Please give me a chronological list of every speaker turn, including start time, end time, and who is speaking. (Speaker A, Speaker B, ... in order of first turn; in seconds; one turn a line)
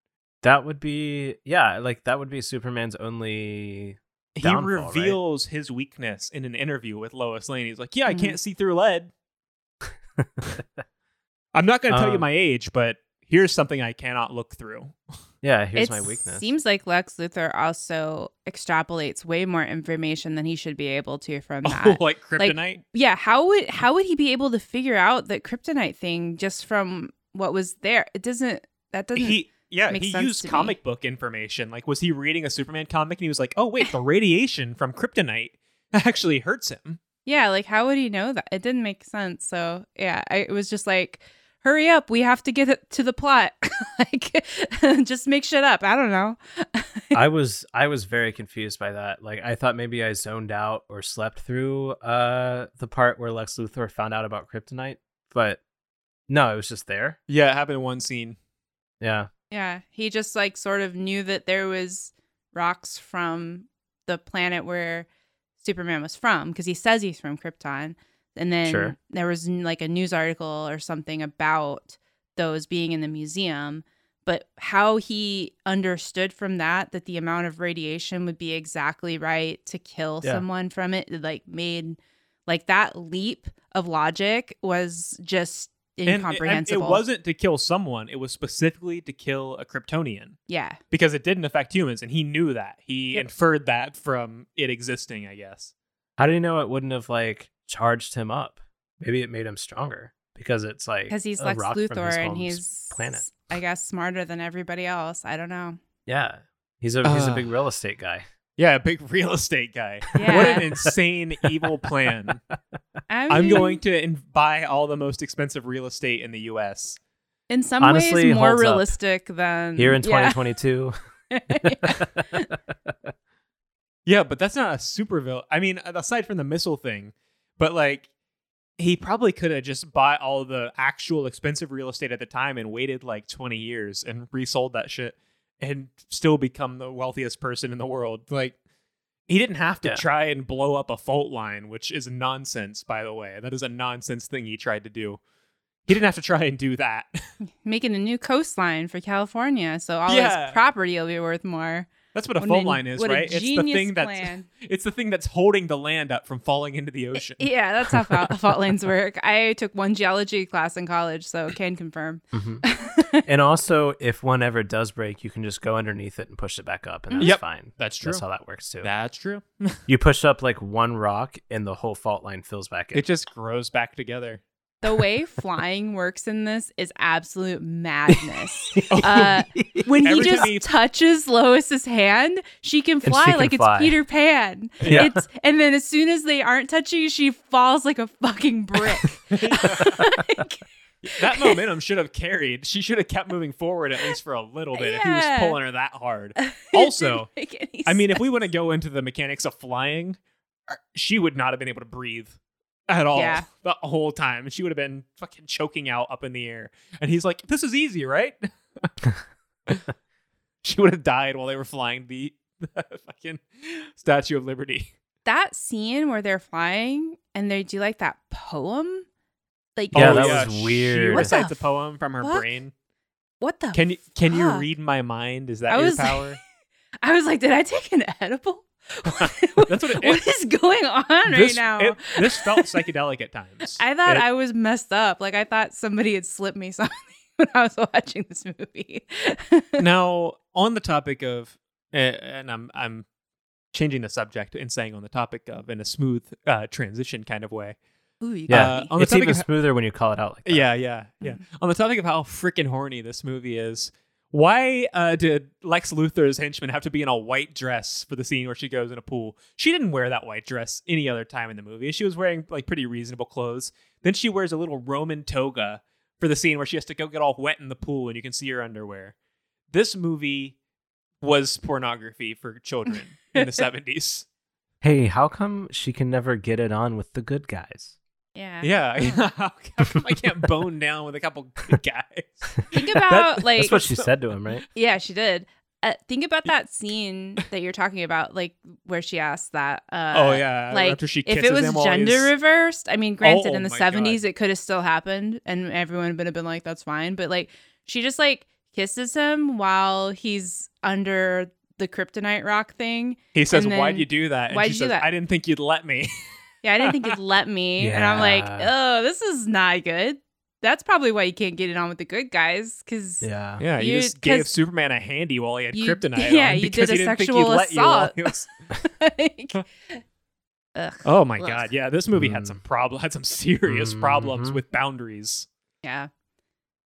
Speaker A: 0.4-5.2
Speaker B: 4.3-9.1
Speaker C: 8.1-8.4
Speaker A: 10.2-10.6
Speaker B: 11.5-14.9
Speaker A: 11.9-12.3
Speaker A: 15.4-16.5
Speaker C: 15.7-30.8
Speaker B: 21.6-22.8
Speaker B: 29.1-37.0
Speaker C: 37.2-47.2
Speaker A: 47.1-55.6
Speaker A: 56.3-57.2
Speaker B: 57.3-58.4
Speaker A: 59.0-59.3
Speaker C: 59.5-65.1
Speaker C: 65.6-87.0
Speaker A: 68.7-69.0
Speaker B: 86.1-90.4
Speaker C: 90.5-90.8
Speaker B: 90.9-95.7
Speaker A: 96.2-103.2
Speaker C: 101.1-105.8
Speaker A: 106.1-108.2
Speaker B: 107.0-107.5
Speaker B: 108.6-112.4
Speaker C: 110.1-110.7
Speaker A: 110.2-110.8
Speaker C: 113.1-113.8
Speaker B: 113.3-117.0
Speaker C: 117.5-120.5
Speaker A: 117.8-118.9
Speaker A: 119.8-120.9
Speaker C: 121.3-122.5
Speaker A: 121.6-123.1
Speaker B: 124.0-128.1
Speaker B: 128.8-138.6
Speaker B: 139.3-145.2
Speaker B: 145.9-147.2
Speaker C: 147.6-154.5
Speaker B: 150.1-150.6
Speaker B: 152.1-157.5
Speaker C: 157.2-163.2
Speaker A: 162.3-162.6
Speaker A: 163.3-168.9
Speaker C: 167.1-167.4
Speaker B: 167.2-168.2
Speaker B: 168.8-169.8
Speaker A: 169.9-173.0
Speaker B: 172.9-174.4
Speaker C: 174.8-190.6
Speaker A: 178.7-180.5
Speaker B: 178.9-179.3
Speaker B: 180.0-180.7
Speaker A: 183.0-183.9
Speaker B: 184.8-185.1
Speaker A: 184.8-185.2
Speaker B: 189.3-189.9
Speaker B: 191.0-197.3
Speaker C: 191.2-191.6
Speaker C: 194.7-195.6
Speaker C: 196.4-198.2
Speaker B: 197.8-200.2
Speaker B: 200.7-202.4
Speaker B: 202.9-208.9
Speaker C: 203.1-203.4
Speaker B: 210.6-214.9
Speaker C: 215.2-219.1
Speaker C: 219.8-220.6
Speaker B: 219.9-222.7
Speaker A: 219.9-221.3
Speaker C: 221.1-221.7
Speaker C: 222.2-222.5
Speaker C: 223.4-224.6
Speaker B: 223.7-226.4
Speaker C: 225.7-226.3
Speaker C: 227.0-232.7
Speaker B: 229.1-230.2
Speaker B: 231.2-234.2
Speaker C: 233.8-239.8
Speaker B: 239.8-243.0
Speaker B: 243.7-247.8
Speaker C: 248.2-248.9
Speaker B: 248.5-249.4
Speaker A: 248.5-250.7
Speaker B: 250.4-269.1
Speaker B: 269.7-270.5
Speaker B: 271.2-274.2
Speaker A: 274.8-277.9
Speaker C: 278.4-279.2
Speaker B: 278.6-284.1
Speaker C: 282.7-283.8
Speaker A: 283.6-284.6
Speaker C: 284.7-305.1
Speaker B: 290.1-292.3
Speaker B: 293.2-294.2
Speaker B: 303.3-306.1
Speaker C: 306.6-314.5
Speaker B: 306.8-307.1
Speaker A: 307.8-308.7
Speaker A: 313.2-313.6
Speaker B: 313.6-318.5
Speaker C: 315.7-320.0
Speaker C: 320.8-321.6
Speaker B: 321.0-325.5
Speaker A: 322.1-322.6
Speaker A: 323.6-324.6
Speaker C: 325.8-326.1